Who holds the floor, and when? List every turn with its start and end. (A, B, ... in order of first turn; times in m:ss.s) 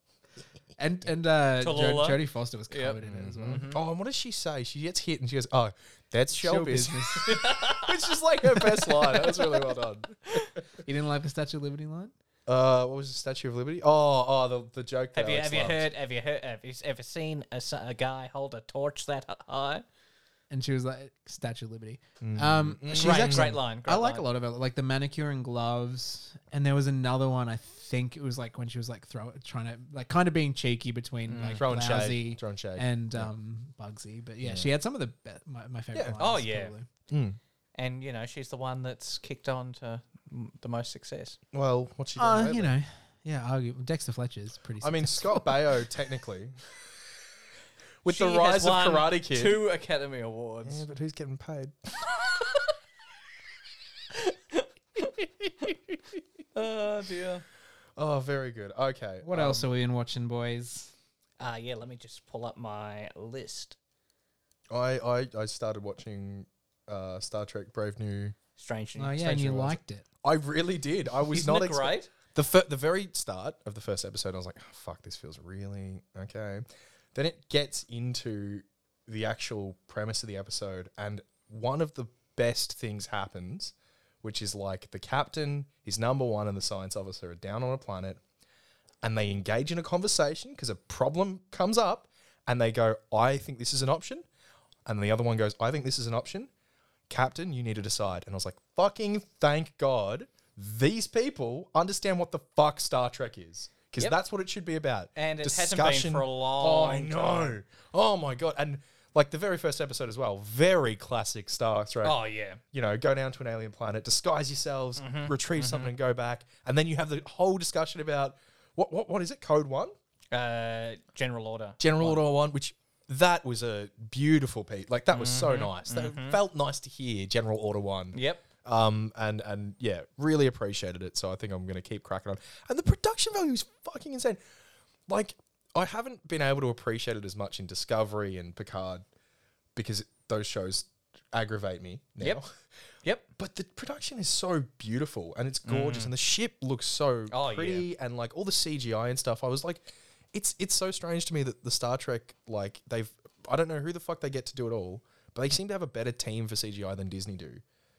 0:00.8-0:03.6 A
0:01.6-0:03.8 B
0:03.0-0:10.6 C
0:06.4-0:07.3 A
0:07.2-0:09.4 B
0:10.8-0:12.1 A
0:12.5-0:15.9 C
0:15.2-0:19.8 B
0:20.5-0:36.9 A
0:22.2-0:23.6 C
0:23.0-0:24.2 B
0:31.3-0:31.6 B
0:31.6-0:33.3 C
0:34.4-0:34.7 C
0:36.2-0:36.7 B
0:37.1-0:37.4 C
0:37.8-0:41.4 B
0:41.5-0:42.7 C
0:42.2-0:45.6 A
0:44.8-0:46.6 C
0:48.0-0:49.6 C
0:48.1-0:50.8 B
0:50.6-0:51.9 C
0:54.1-0:55.1 B
0:56.6-0:57.4 B
0:58.0-0:59.7 C
0:59.2-1:00.9 A
1:01.4-1:03.8 B
1:04.7-1:08.4 C
1:08.6-1:09.6 B
1:09.0-1:10.0 A
1:09.4-1:28.2 C
1:11.3-1:12.1 B
1:29.0-1:34.3 C
1:34.9-1:36.5 C
1:37.1-1:52.2 C
1:45.2-1:47.6 B
1:52.0-1:52.6 B
1:52.7-1:59.9 C
1:55.0-1:55.9 B
2:00.3-2:02.2 B
2:01.8-2:14.4 C
2:05.1-2:06.4 B
2:08.1-2:08.4 B
2:15.1-2:19.0 C
2:19.8-2:22.5 C
2:23.4-2:37.6 C
2:25.7-2:26.1 B
2:27.3-2:27.9 B